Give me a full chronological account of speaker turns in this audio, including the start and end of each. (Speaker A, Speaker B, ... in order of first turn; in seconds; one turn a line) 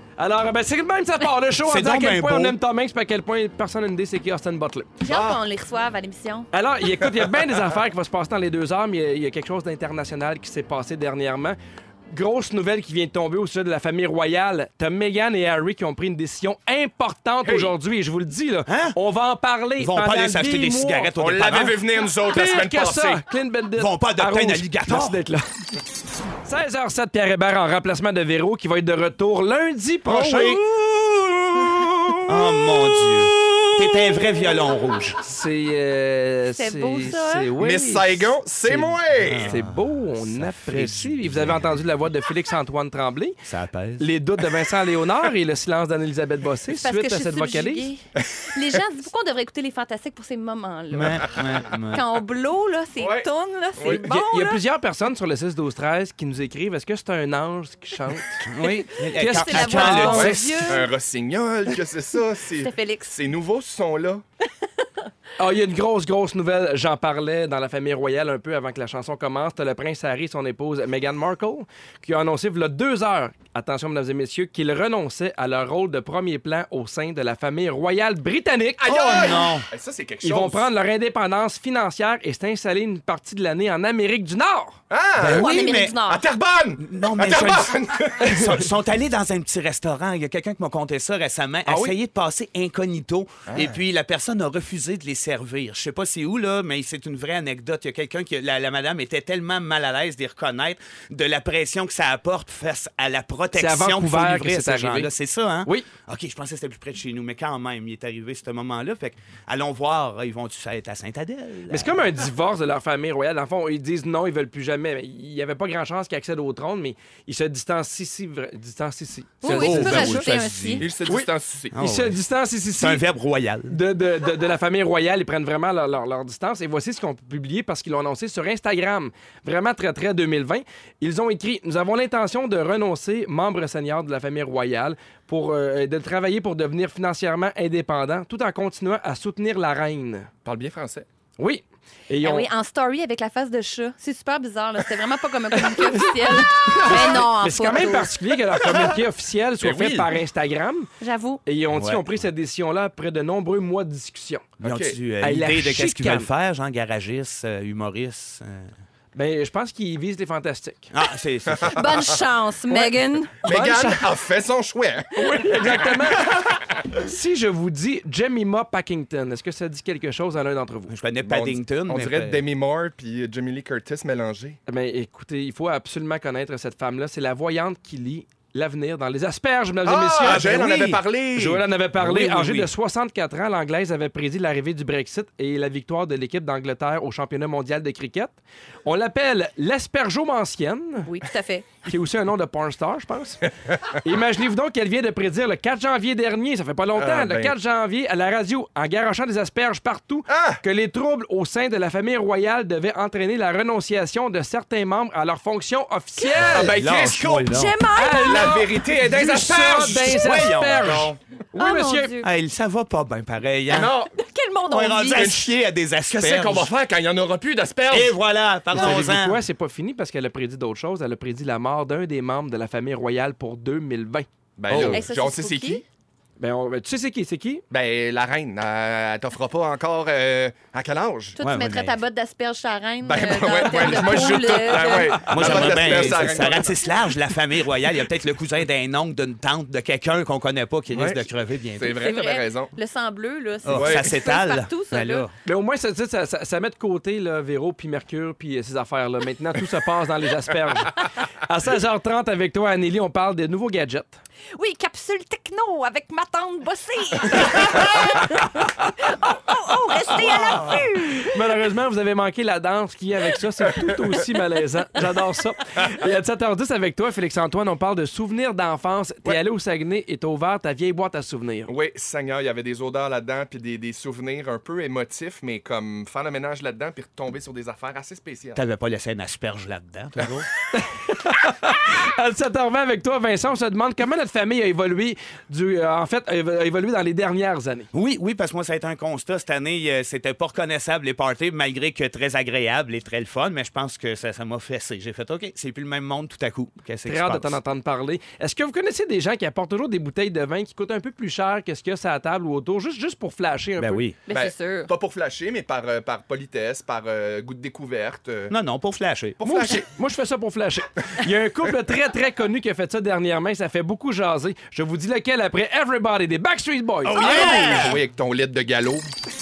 Speaker A: 0.2-4.9
Speaker B: 1.6-2.5
Speaker C: 5.0-6.5
Speaker D: 5.0-5.4
Speaker A: 6.5-11.6
Speaker A: 12.1-21.1
Speaker D: 17.4-17.7
Speaker B: 18.7-18.9
Speaker B: 19.8-21.8
Speaker D: 21.2-23.2
Speaker A: 22.2-25.4
Speaker B: 23.8-25.2
Speaker A: 26.4-30.6
Speaker B: 30.1-30.6
Speaker D: 30.7-34.1
Speaker B: 32.2-35.2
Speaker A: 35.2-43.4
Speaker C: 36.5-37.5
Speaker D: 37.6-39.5
Speaker B: 39.2-41.8
Speaker B: 43.4-44.1
Speaker A: 44.0-47.9
Speaker C: 46.7-54.6
Speaker B: 50.9-52.0
Speaker D: 53.0-54.0
Speaker A: 53.8-58.4
Speaker B: 58.4-60.5
Speaker C: 58.6-60.9
Speaker A: 59.2-60.8
Speaker D: 60.0-64.2
Speaker C: 62.6-63.2
Speaker A: 65.4-78.9
Speaker D: 78.8-80.7
Speaker B: 78.8-79.7
Speaker A: 80.2-84.8
Speaker D: 84.9-88.6
Speaker B: 85.2-86.0
Speaker C: 85.2-86.2
Speaker B: 86.8-112.0
Speaker A: 91.7-91.9
Speaker D: 93.5-93.8
Speaker A: 103.5-105.1
Speaker A: 111.7-120.2
Speaker C: 119.4-120.8
Speaker B: 119.4-120.9
Speaker D: 119.5-120.2
Speaker D: 120.8-121.7
Speaker A: 121.0-123.0
Speaker B: 121.7-122.2
Speaker B: 122.8-123.8
Speaker A: 123.7-140.3
Speaker D: 140.4-141.1
Speaker A: 141.4-142.5
Speaker C: 142.2-148.1
Speaker A: 145.7-150.9
Speaker D: 149.6-150.1
Speaker C: 151.0-151.4
Speaker A: 151.4-154.5
Speaker B: 151.7-152.2
Speaker B: 154.6-158.7
Speaker D: 154.6-155.0
Speaker A: 155.2-156.3
Speaker A: 159.1-160.9
Speaker B: 160.9-161.8
Speaker D: 161.5-161.9
Speaker C: 161.7-163.3
Speaker A: 162.7-164.1
Speaker D: 163.4-166.7
Speaker A: 165.1-170.9
Speaker B: 170.9-172.4
Speaker D: 171.2-174.6
Speaker A: 174.7-180.7
Speaker D: 179.8-181.7
Speaker B: 180.2-181.0
Speaker A: 181.3-191.1
Speaker B: 181.9-182.7
Speaker C: 191.1-191.7
Speaker A: 191.8-206.7
Speaker D: 196.9-197.5
Speaker D: 200.3-200.6
Speaker C: 206.2-206.6
Speaker B: 206.4-207.8
Speaker D: 206.5-207.4
Speaker C: 207.3-208.7
Speaker A: 207.9-212.1
Speaker D: 208.2-210.2
Speaker B: 209.9-211.2
Speaker C: 211.6-212.3
Speaker B: 212.2-213.9
Speaker D: 213.7-214.1
Speaker C: 214.1-215.4
Speaker B: 214.7-216.7
Speaker D: 215.2-215.5
Speaker D: 216.1-218.1
Speaker B: 217.9-219.4
Speaker A: 218.7-224.3
Speaker D: 224.6-225.8
Speaker B: 224.7-225.0
Speaker C: 224.8-225.8
Speaker A: 226.4-227.6
Speaker D: 227.7-231.4
Speaker C: 231.4-235.6
Speaker B: 231.4-232.0
Speaker D: 233.0-236.8
Speaker B: 235.2-242.0
Speaker D: 240.9-241.2
Speaker D: 241.8-242.7
Speaker C: 241.9-245.3
Speaker B: 243.6-245.3
Speaker D: 243.7-244.1
Speaker A: 245.4-254.2
Speaker C: 254.5-261.4
Speaker B: 260.1-260.9
Speaker A: 260.4-271.7
Speaker D: 271.7-278.6
Speaker B: 278.5-280.5
Speaker A: 280.7-287.9
Speaker B: 287.9-297.6
Speaker A: 297.1-304.0
Speaker B: 303.8-304.2
Speaker C: 304.3-304.9
Speaker D: 304.3-308.5
Speaker B: 308.5-309.4
Speaker D: 309.4-309.9
Speaker A: 309.4-317.4
Speaker B: 317.0-318.0
Speaker D: 317.1-319.1